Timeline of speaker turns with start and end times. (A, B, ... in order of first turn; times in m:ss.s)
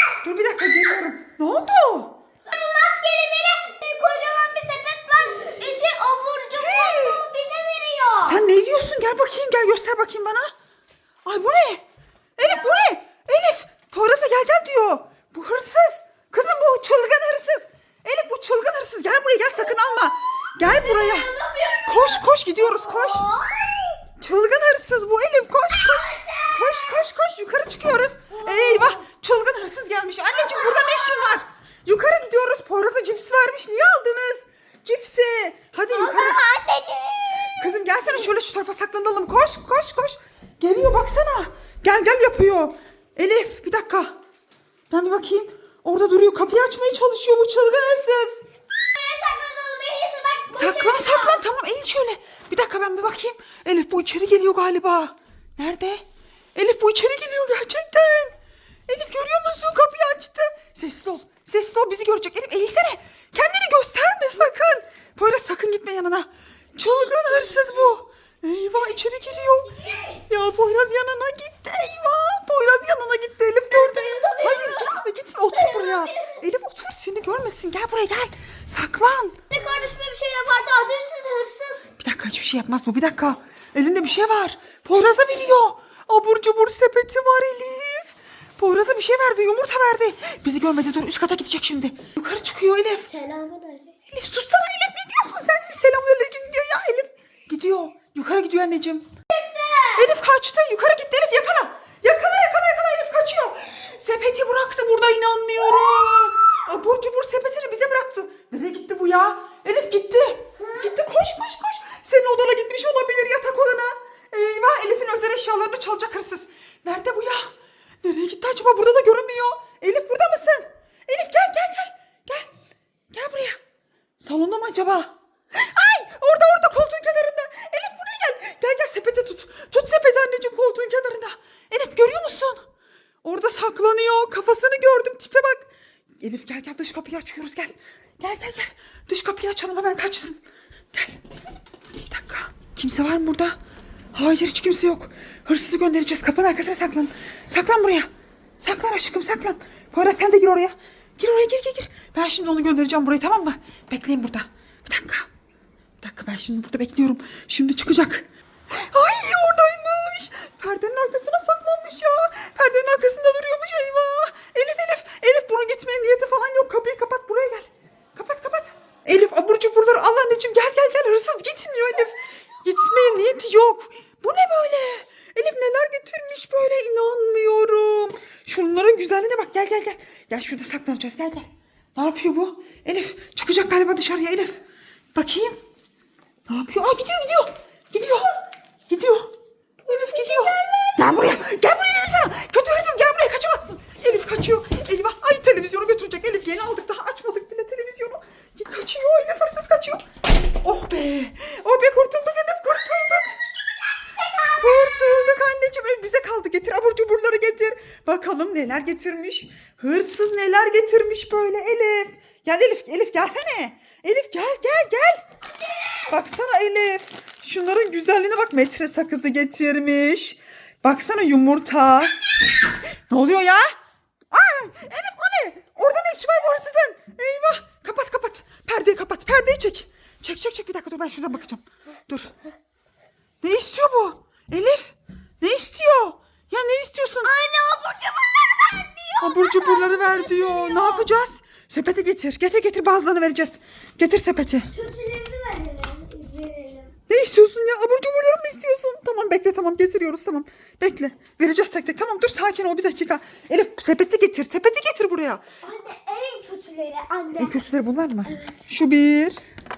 0:00.2-0:02.2 A
0:02.5-0:08.4 B
0:06.6-0:07.2 A
0:08.2-0:10.5 A
0:11.2-0:11.8 A
0:12.4-0:21.3 A
0:20.6-0:24.0 B
0:21.8-0:23.3 A
0:24.2-0:36.4 A
0:25.7-0:27.0 B
0:28.3-0:29.0 B
0:30.3-0:31.4 B
0:35.9-0:37.9 B
0:37.4-0:44.2 A
0:44.9-0:48.4 A
0:48.9-0:51.4 B
0:50.5-0:56.0 A
0:56.6-1:19.4 A
1:06.8-1:08.0 B
1:09.0-1:10.2 B
1:13.7-1:16.4 B
1:19.5-1:21.9 B
1:22.0-1:33.1 A
1:33.0-1:33.9 B
1:34.1-1:39.1 A
1:39.3-1:40.2 B
1:40.0-2:02.5 A
1:50.6-1:51.0 B
2:03.1-2:03.6 A
2:04.2-2:12.6 A
2:13.2-2:20.4 A
2:20.9-2:21.2 A
2:22.1-2:23.6 A
2:24.1-2:35.3 A
2:36.0-3:04.6 A
3:05.1-3:05.6 A
3:06.5-3:08.3 A
3:08.9-3:09.3 A
3:09.8-3:11.4 B
3:09.9-3:20.0 A
3:20.6-3:23.4 A
3:24.2-3:24.6 B
3:24.6-3:35.2 A
3:36.1-3:42.2 A
3:43.1-3:43.7 A
3:44.3-3:52.3 A
3:53.4-3:57.3 A
3:57.2-4:01.1 B
3:59.2-4:04.7 A
4:04.7-4:06.9 B
4:07.1-4:15.4 A
4:15.6-4:17.6 B
4:17.4-4:19.4 A
4:18.3-4:18.6 B